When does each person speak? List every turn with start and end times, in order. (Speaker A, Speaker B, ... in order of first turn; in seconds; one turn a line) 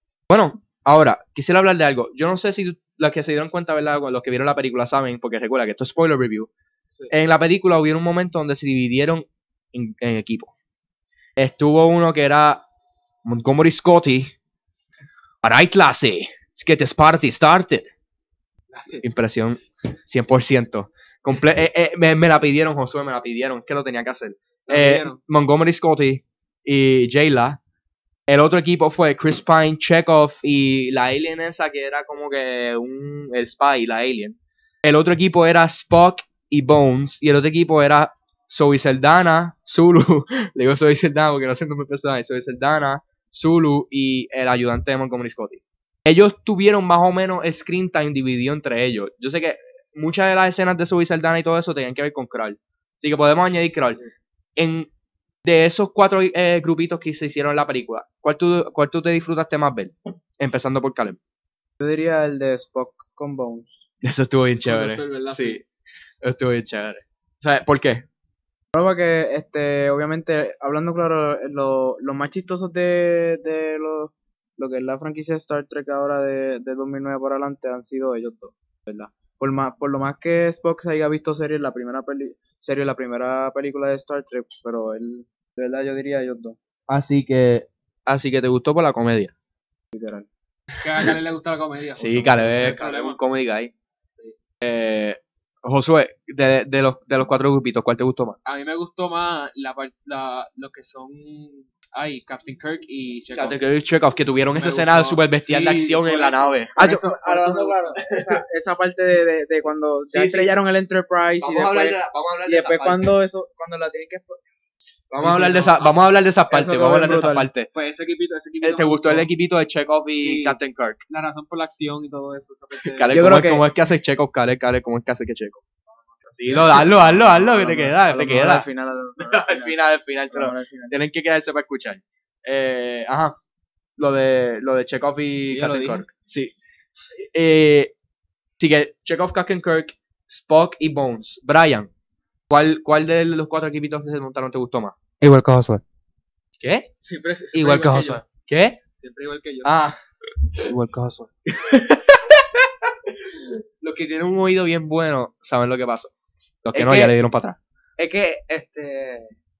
Speaker A: 0.3-6.5
Speaker A: 7.1-10.5
Speaker A: 11.3-12.6
Speaker A: 13.2-14.3
Speaker A: 15.4-17.9
Speaker B: 18.7-19.0
Speaker A: 19.0-27.6
Speaker B: 24.7-25.2
Speaker A: 28.3-54.0
Speaker A: 54.6-54.9
Speaker A: 55.4-61.2
Speaker C: 61.8-63.8
Speaker A: 64.0-65.6
Speaker B: 64.7-65.6
Speaker A: 66.2-68.0
Speaker C: 68.7-86.6
Speaker A: 86.9-89.3
Speaker C: 89.9-90.3
Speaker B: 90.8-93.2
Speaker A: 92.0-93.7
Speaker A: 94.6-98.4
Speaker B: 98.4-103.6
Speaker A: 103.3-107.0
Speaker B: 104.5-107.9
Speaker C: 106.8-114.4
Speaker A: 108.0-108.4
Speaker A: 110.1-110.6
Speaker A: 111.4-113.1
Speaker A: 115.1-117.7
Speaker B: 115.2-115.9
Speaker C: 116.5-117.5
Speaker B: 117.7-119.3
Speaker A: 118.6-121.0
Speaker B: 120.1-120.6
Speaker B: 121.1-123.2
Speaker A: 122.9-125.6
Speaker C: 123.1-123.7
Speaker A: 126.3-128.7
Speaker C: 126.5-129.8
Speaker A: 129.2-133.4
Speaker C: 130.3-130.9
Speaker A: 134.0-136.5
Speaker B: 135.5-136.0
Speaker A: 137.2-137.9
Speaker A: 138.6-141.9
Speaker A: 142.5-144.9
Speaker D: 145.2-145.8
Speaker A: 146.6-146.9
Speaker B: 147.0-148.2
Speaker D: 147.5-148.2
Speaker A: 148.5-148.8
Speaker B: 149.0-149.7
Speaker A: 149.6-150.0
Speaker D: 150.7-151.3
Speaker A: 151.5-152.4
Speaker A: 153.8-156.1
Speaker A: 156.6-157.6
Speaker D: 156.7-157.1
Speaker D: 158.0-159.3